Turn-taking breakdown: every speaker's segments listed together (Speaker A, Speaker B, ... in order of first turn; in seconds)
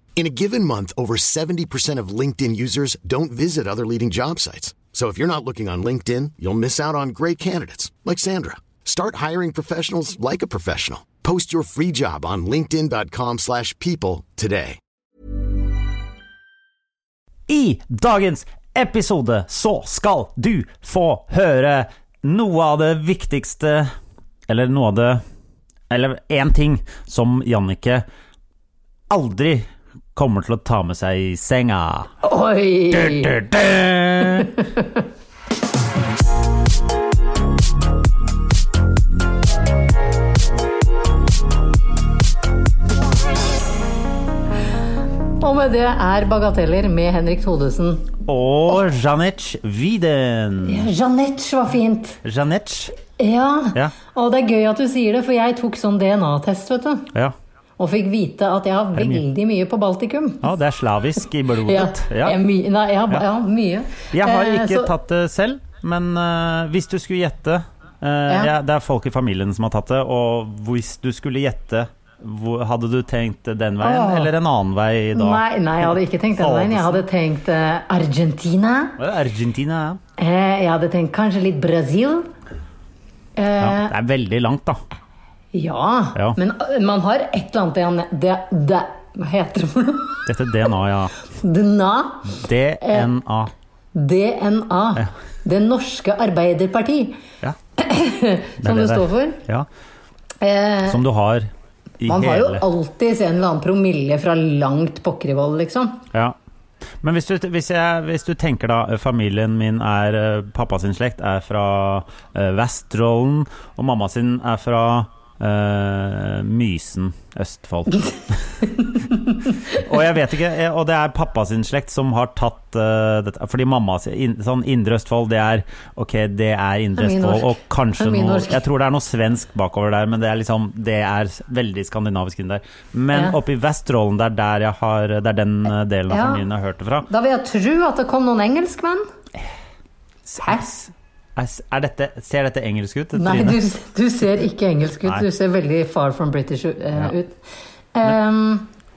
Speaker A: 0.1-14.8
Speaker B: 17.5-23.9, 24.5-25.2, 25.9-28.0, 29.1-32.1, 32.9-34.5, 48.3-50.9, 52.2-52.9, 59.0-59.2, 60.4-62.4, 64.1-77.0, 79.0-80.0, 83.6-84.8, 90.2-91.1, 92.3-93.5, 98.6-99.7, 100.9-102.6, 107.0-118.8, 119.7-137.1, 140.3-143.6
Speaker C: 32.2-33.3, 45.4-48.1, 50.7-52.2, 53.2-57.1, 57.8-60.4, 61.7-64.9, 73.8-74.3, 75.1-78.9, 80.2-82.3, 83.4-83.9, 85.5-90.2, 91.3-93.1, 93.9-97.2, 97.8-99.4, 100.4-101.0, 102.0-106.0, 127.0-128.6, 136.1-136.4, 137.1-139.1, 143.2-147.4, 147.9-148.7